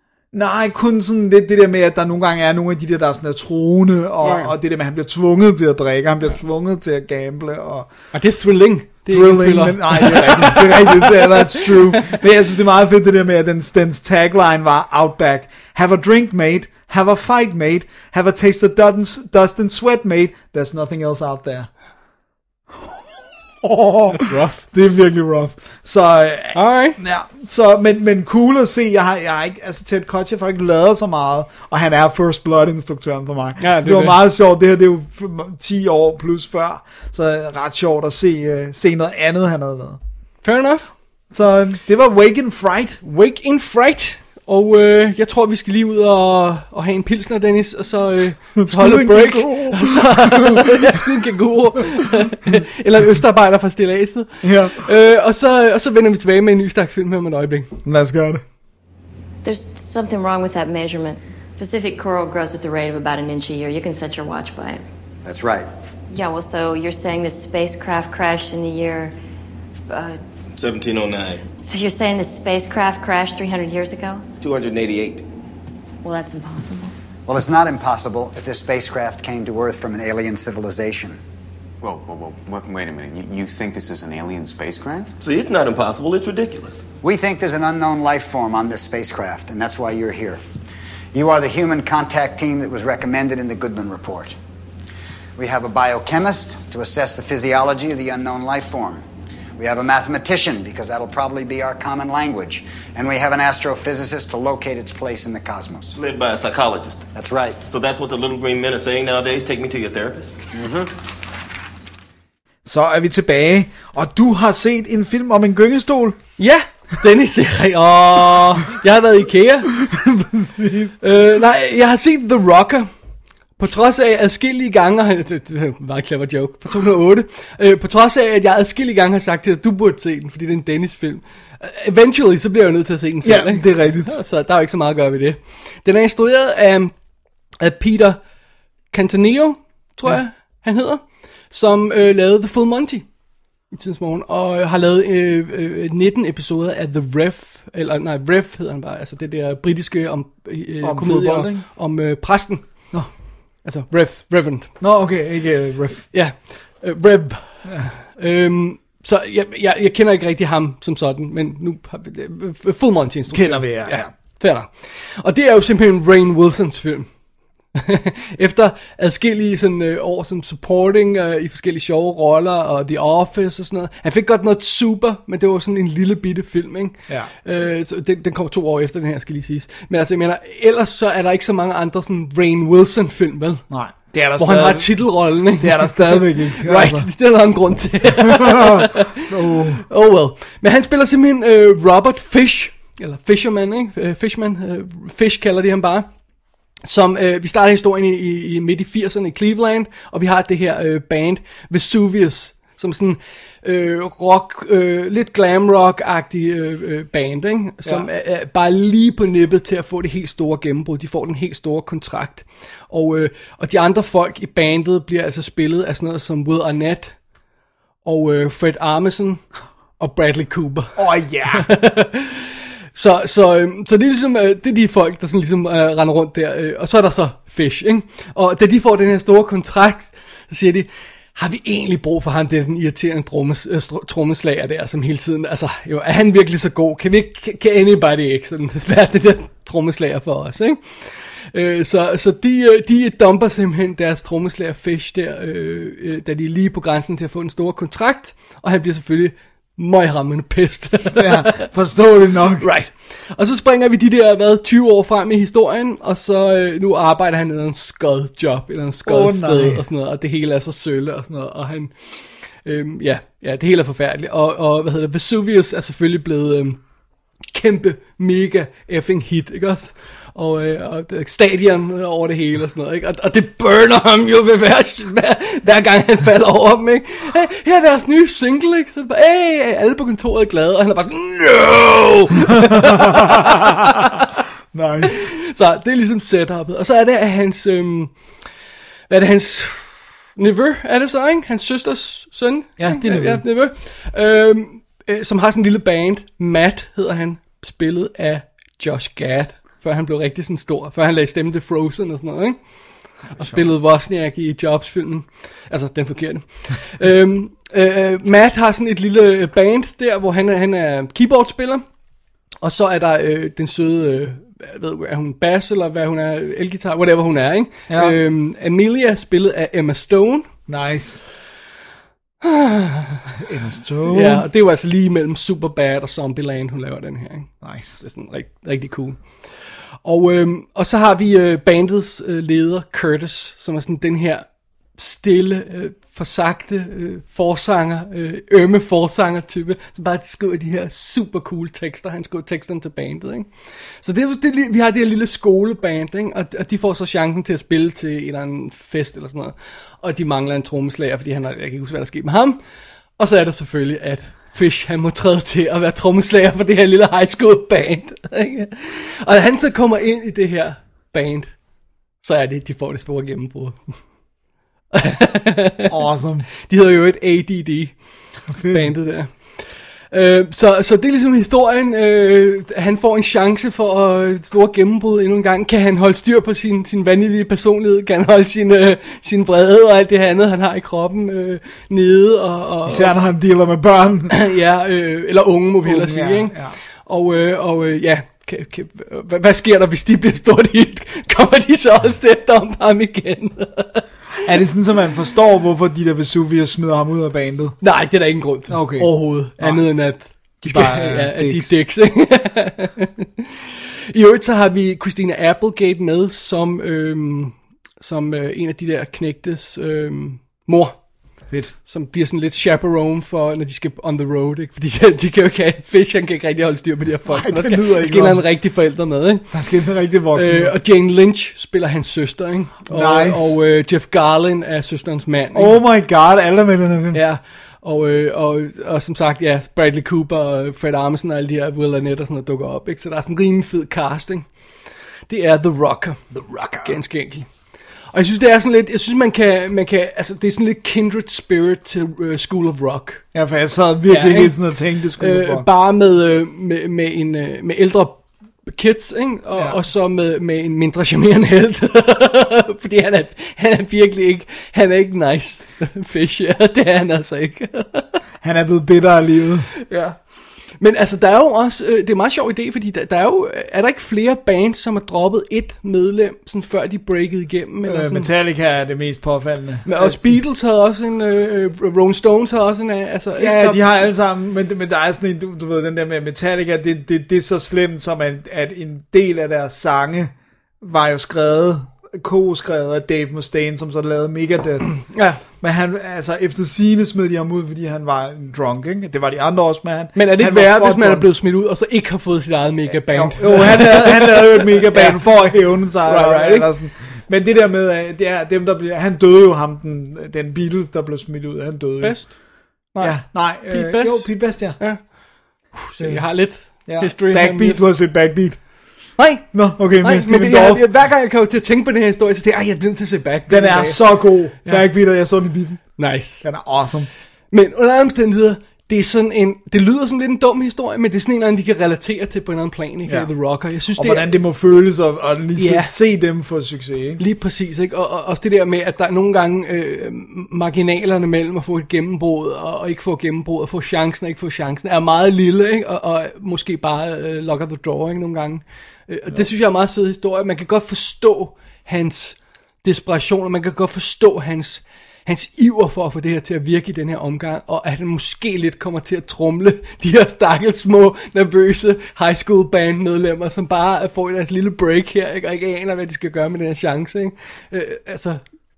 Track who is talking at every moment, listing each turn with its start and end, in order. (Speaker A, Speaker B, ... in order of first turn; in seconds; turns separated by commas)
Speaker A: 0.3-7.9, Speaker B: 4.2-4.5, Speaker B: 8.1-12.2, Speaker A: 9.1-21.7, Speaker A: 22.7-40.0, Speaker B: 24.1-24.6, Speaker B: 26.5-27.0, Speaker B: 33.6-34.2, Speaker B: 40.4-40.9, Speaker A: 41.3-43.0, Speaker B: 43.0-57.7, Speaker A: 48.6-51.0, Speaker A: 54.4-54.9, Speaker A: 57.9-58.4, Speaker C: 59.4-64.8, Speaker D: 65.2-65.7, Speaker C: 66.1-69.1, Speaker C: 69.9-70.2, Speaker E: 70.5-71.4, Speaker C: 71.5-74.2, Speaker E: 74.4-75.3, Speaker C: 76.0-76.9, Speaker D: 77.3-81.2, Speaker F: 81.8-85.1, Speaker E: 85.2-86.8, Speaker D: 87.0-90.4, Speaker D: 91.1-94.3, Speaker D: 95.4-99.0, Speaker D: 99.6-105.9, Speaker E: 105.9-107.0, Speaker D: 107.1-107.6, Speaker E: 107.7-110.8, Speaker A: 112.7-116.2, Speaker B: 116.4-119.7, Speaker A: 119.8-121.0, Speaker B: 121.0-122.9, Speaker B: 123.6-136.9, Speaker A: 133.2-134.2, Speaker B: 137.6-138.2, Speaker B: 138.9-143.1, Speaker B: 143.7-152.9, Speaker A: 150.8-151.7, Speaker B: 153.6-154.7, Speaker A: 154.8-156.1, Speaker B: 156.1-167.1, Speaker A: 163.3-164.1, Speaker B: 167.8-183.6, Speaker A: 177.1-177.6, Speaker A: 183.7-187.1, Speaker B: 184.4-189.2, Speaker A: 188.1-189.8, Speaker B: 189.8-196.1, Speaker B: 196.8-217.2, Speaker B: 218.0-219.4, Speaker B: 220.0-220.9, Speaker A: 221.0-221.7, Speaker B: 221.5-251.7, Speaker A: 251.1-252.7, Speaker B: 252.6-266.8, Speaker A: 259.1-259.8, Speaker B: 267.5-284.3, Speaker A: 282.6-284.1, Speaker A: 284.7-285.4, Speaker B: 285.1-288.2, Speaker B: 289.1-302.6, Speaker A: 292.8-293.4, Speaker B: 303.3-311.8, Speaker A: 303.3-303.7, Speaker B: 312.6-320.5, Speaker A: 317.9-318.2, Speaker A: 320.7-321.2, Speaker B: 322.4-323.3, Speaker A: 323.4-324.4, Speaker B: 324.1-329.4, Speaker A: 327.6-328.0, Speaker B: 330.0-334.5, Speaker B: 335.0-343.5, Speaker B: 344.0-352.6, Speaker B: 353.2-361.5, Speaker B: 362.2-363.9, Speaker B: 364.9-365.9, Speaker A: 365.9-366.5, Speaker B: 366.7-368.0, Speaker A: 368.5-368.9, Speaker B: 368.6-383.1, Speaker A: 382.9-384.4, Speaker B: 384.3-394.1, Speaker A: 385.9-386.8, Speaker A: 394.4-397.8, Speaker B: 397.8-403.5, Speaker A: 398.7-400.0, Speaker A: 400.6-401.8, Speaker B: 404.1-411.0, Speaker A: 411.5-411.8, Speaker B: 411.9-419.5, Speaker A: 417.3-418.4, Speaker A: 419.5-420.7, Speaker B: 420.4-425.8, Speaker A: 422.9-423.6, Speaker A: 425.5-427.2, Speaker B: 427.1-434.5, Speaker B: 435.3-436.2, Speaker A: 436.3-437.0, Speaker B: 436.8-437.5, Speaker B: 438.1-443.2, Speaker A: 443.3-445.7, Speaker B: 444.1-444.6, Speaker B: 445.2-458.2, Speaker A: 458.4-459.7, Speaker B: 459.9-460.2, Speaker B: 460.8-468.3, Speaker A: 467.9-470.4, Speaker B: 469.9-473.8, Speaker A: 473.3-491.3, Speaker B: 485.1-485.4, Speaker B: 490.1-496.7, Speaker A: 492.9-502.4, Speaker B: 502.0-502.4, Speaker B: 502.9-507.8, Speaker A: 503.0-504.8, Speaker A: 506.0-508.7, Speaker B: 509.2-514.0, Speaker A: 509.5-510.9, Speaker A: 513.5-517.1, Speaker B: 516.0-516.4, Speaker B: 517.5-524.3, Speaker A: 523.1-523.3, Speaker A: 523.9-527.2, Speaker B: 525.6-525.9, Speaker B: 527.2-558.4